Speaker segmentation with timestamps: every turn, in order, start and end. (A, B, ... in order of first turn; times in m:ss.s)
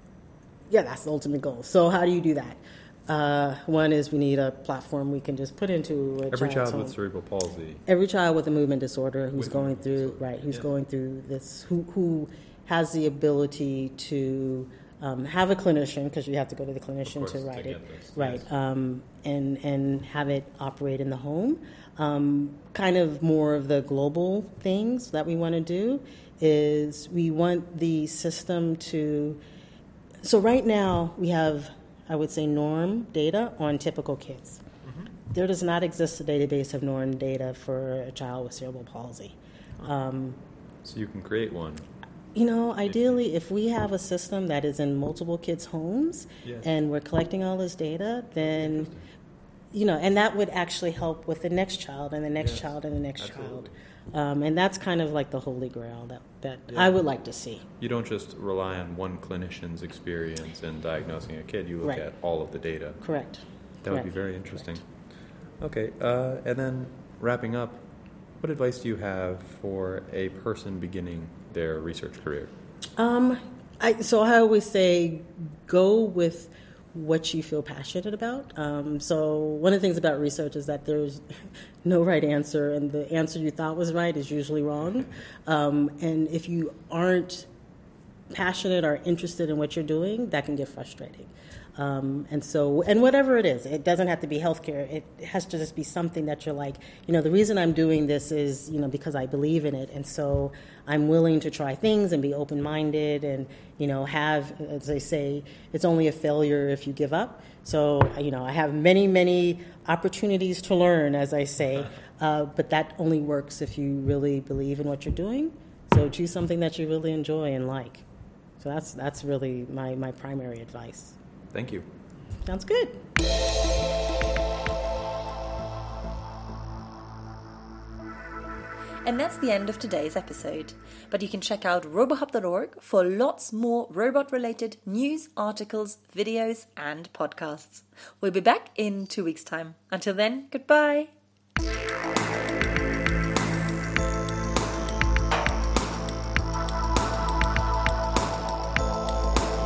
0:00.7-0:07.0 A
0:06.3-0:07.8 B
0:07.9-0:29.4 A
0:09.4-0:10.7 B
0:17.1-0:18.5 B
0:30.2-0:34.6 A
0:34.8-0:35.1 B
0:35.3-0:40.4 A
0:40.8-0:41.9 B
0:42.4-0:48.9 A
0:42.9-0:43.2 B
0:46.4-0:46.7 B
0:48.4-0:49.1 B
0:49.7-0:57.6 A
0:52.4-0:53.8 B
0:56.7-0:57.0 B
0:57.8-1:03.0 B
1:03.0-1:04.7 A
1:03.8-1:04.8 B
1:05.6-1:07.9 B
1:08.4-1:12.5 B
1:13.0-1:21.2 A
1:21.8-1:27.5 A
1:28.3-1:58.0 A
1:58.6-2:01.2 A
2:01.5-2:01.9 B
2:02.5-2:03.0 A
2:09.0-2:21.1 C